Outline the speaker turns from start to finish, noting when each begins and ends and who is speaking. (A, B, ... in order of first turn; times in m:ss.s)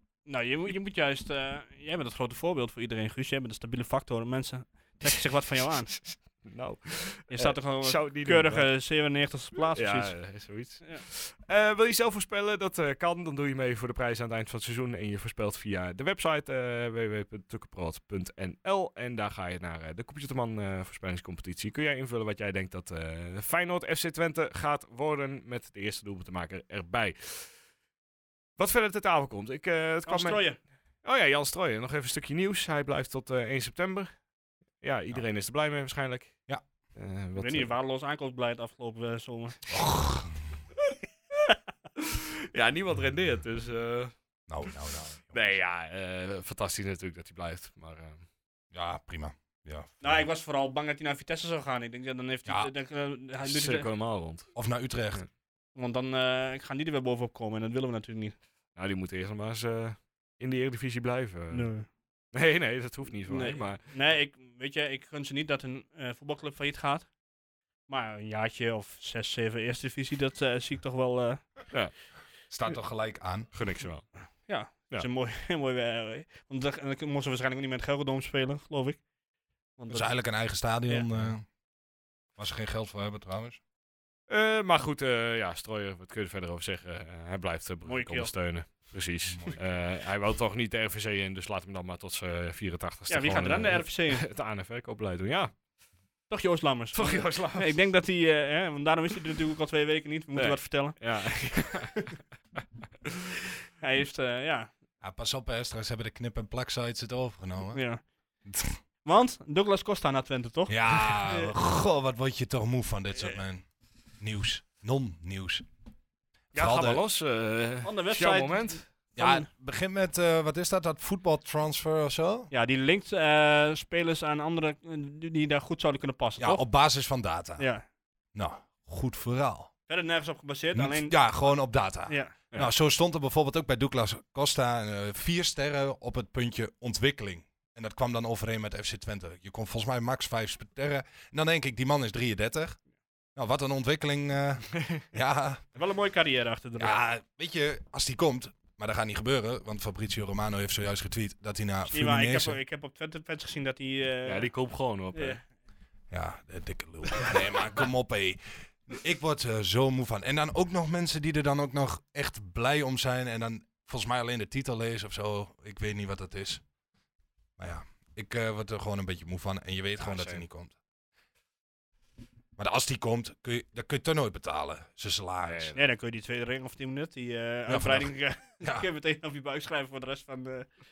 0:00.2-0:06.0 A
0:06.0-0:08.7 B
0:07.3-0:11.0 A
0:09.6-0:27.6 B
0:28.6-0:34.2 B
0:30.0-0:30.6 A
0:34.8-0:36.4 B
0:36.9-0:37.7 B
0:37.4-0:39.6 A
0:39.7-0:40.3 C
0:42.0-0:44.1 B
0:44.5-0:45.4 C
0:45.3-0:48.2 B
0:48.7-0:50.2 C
0:50.0-0:53.9 A
0:53.4-0:54.5 B
0:54.5-0:55.2 C
0:55.7-0:58.4 A
0:58.7-1:01.7 B
1:01.5-1:01.9 A
1:02.3-1:03.9 B
1:03.3-1:07.1 A
1:07.9-1:11.6 A
1:12.5-1:13.5 C
1:13.5-1:14.1 B
1:14.5-1:19.0 A
1:19.8-1:21.0 A
1:19.9-1:21.5 C
1:22.4-1:23.6 C
1:24.3-1:35.6 B
1:27.8-1:28.3 A
1:29.3-1:29.6 C
1:33.1-1:34.3 A
1:36.3-1:42.2 A
1:36.9-1:37.7 B
1:40.3-1:42.2 B
1:43.8-1:44.7 A
1:45.0-1:47.8 C
1:47.7-1:48.0 A
1:48.4-1:48.8 C
1:49.0-1:51.5 A
1:50.7-1:55.6 C
1:56.5-1:57.0 C
1:56.5-1:58.9 B
1:57.8-1:59.5 A
1:59.1-2:02.5 C
2:02.5-2:06.6 A
2:06.4-2:07.6 C
2:07.6-2:07.8 A
2:08.3-2:09.7 C
2:09.9-2:11.4 A
2:10.7-2:22.8 C
2:12.1-2:12.7 A
2:23.3-2:25.6 C
2:25.7-2:27.0 A
2:26.8-2:32.6 C
2:31.9-2:34.5 A
2:34.2-2:35.4 B
2:35.1-2:35.4 A
2:36.1-2:46.6 C
2:47.6-2:50.8 C
2:50.0-2:50.4 B
2:52.6-2:55.8 C
2:55.4-2:55.8 B
2:55.8-3:00.7 A
2:57.7-2:58.8 C